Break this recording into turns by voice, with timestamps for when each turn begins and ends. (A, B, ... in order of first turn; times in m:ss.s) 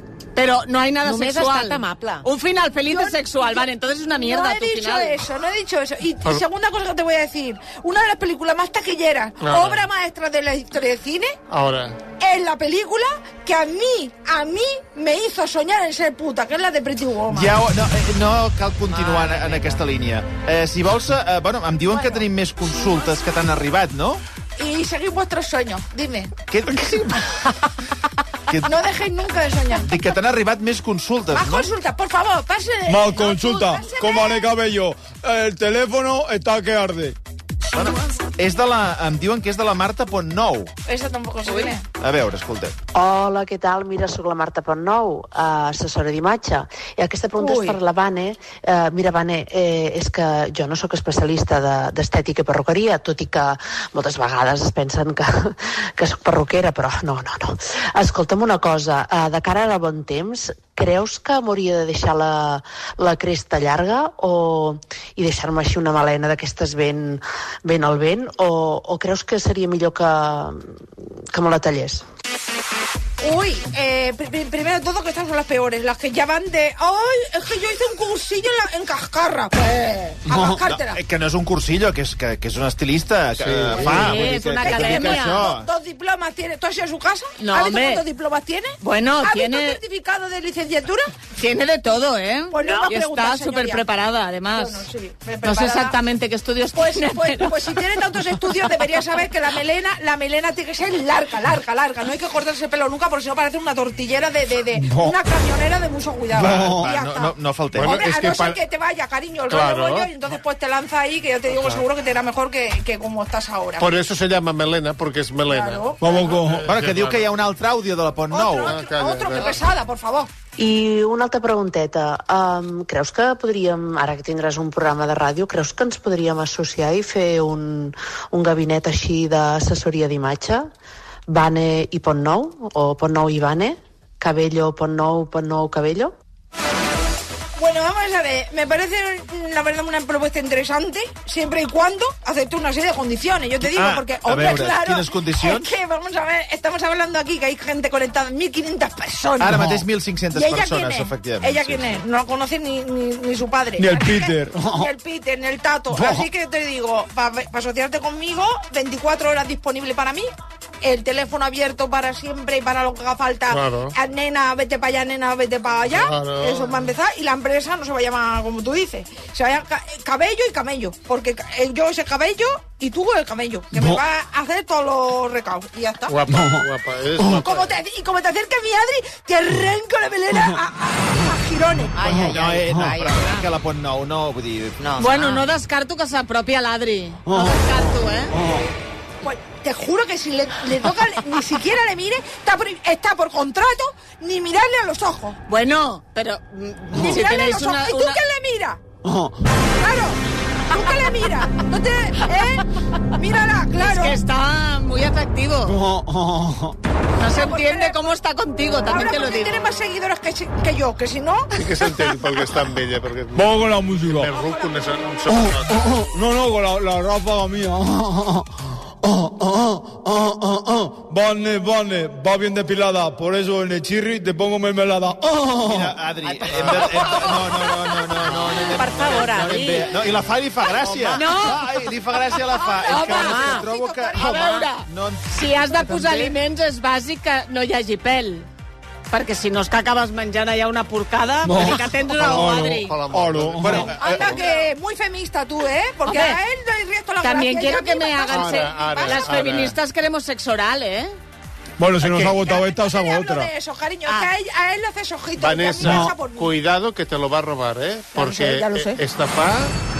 0:00.3-0:05.2 A
0:01.0-0:02.2 B
0:02.9-0:11.4 C
0:09.4-0:09.8 D
0:11.5-0:12.0 D
0:12.1-0:17.6 C
0:17.3-0:24.2 E
0:18.9-0:19.8 B
0:21.9-0:22.2 C
0:24.6-0:26.3 C
0:26.5-0:27.4 E
0:28.5-0:28.8 E
0:28.6-0:29.9 C
0:29.8-0:31.7 E
0:31.3-0:34.5 C
0:32.9-0:37.2 F
0:37.7-0:40.7 E
0:40.8-0:41.8 C
0:41.4-0:41.7 A
0:42.0-0:42.8 E
0:42.9-1:12.0 G
0:47.4-0:47.8 C
1:13.2-1:21.0 C
1:20.3-1:25.7 E
1:23.4-1:24.2 D
1:23.8-1:25.5 A
1:24.6-1:31.1 C
1:27.4-1:28.0 A
1:28.8-1:29.8 A
1:31.4-1:34.9 A
1:32.5-1:33.8 C
1:34.5-1:36.0 C
1:35.4-1:38.0 A
1:36.7-1:53.9 C
1:44.8-1:45.1 F
1:46.3-1:48.0 E
1:47.7-1:48.6 D
1:49.5-1:50.1 D
1:51.5-1:51.8 D
1:53.8-1:57.3 D
1:55.5-1:56.4 C
1:56.0-1:56.7 F
1:56.6-1:58.8 E
1:58.3-2:00.3 C
1:58.6-1:59.6 D
2:00.6-2:10.7 G
2:11.3-2:16.2 G
2:17.6-2:29.7 C
2:23.6-2:25.7 E
2:29.4-2:32.0 E
2:30.3-2:40.3 C
2:33.8-2:34.9 F
2:35.9-2:36.2 F
2:40.8-2:56.3 C
2:43.5-2:43.9 D
2:45.9-2:46.9 D
2:56.1-2:57.8 D
2:57.2-3:02.1 C
3:01.9-3:03.5 B
3:02.1-3:04.8 E
3:04.8-3:05.5 B
3:05.0-3:08.5 A
3:09.2-3:15.4 C
3:15.5-3:18.2 A
3:16.9-3:18.8 C
3:19.6-3:24.2 C
3:23.8-3:25.8 A
3:25.8-3:26.7 F
3:27.2-3:29.6 A
3:27.2-3:28.0 C
3:28.6-3:31.9 C
3:31.5-3:36.1 D
3:33.3-3:34.3 F
3:34.2-3:34.8 C
3:36.1-3:38.4 F
3:39.1-3:45.8 F
3:45.6-3:55.6 E
3:46.2-3:47.7 B
3:48.3-3:49.9 B
3:51.1-3:51.6 A
3:51.1-3:51.4 B
3:52.5-3:54.7 C
3:52.8-3:53.6 A
3:53.1-3:53.7 B
3:54.1-3:58.5 A
3:59.1-4:02.9 A
4:01.4-4:03.9 F
4:02.2-4:04.4 D
4:03.6-4:04.4 E
4:03.9-4:09.4 C
4:06.0-4:06.4 A
4:07.2-4:11.2 A
4:08.3-4:09.8 D
4:11.8-4:13.5 F
4:12.0-4:12.4 D
4:12.4-4:16.6 C
4:14.0-4:14.3 A
4:15.4-4:19.7 D
4:18.1-4:19.0 C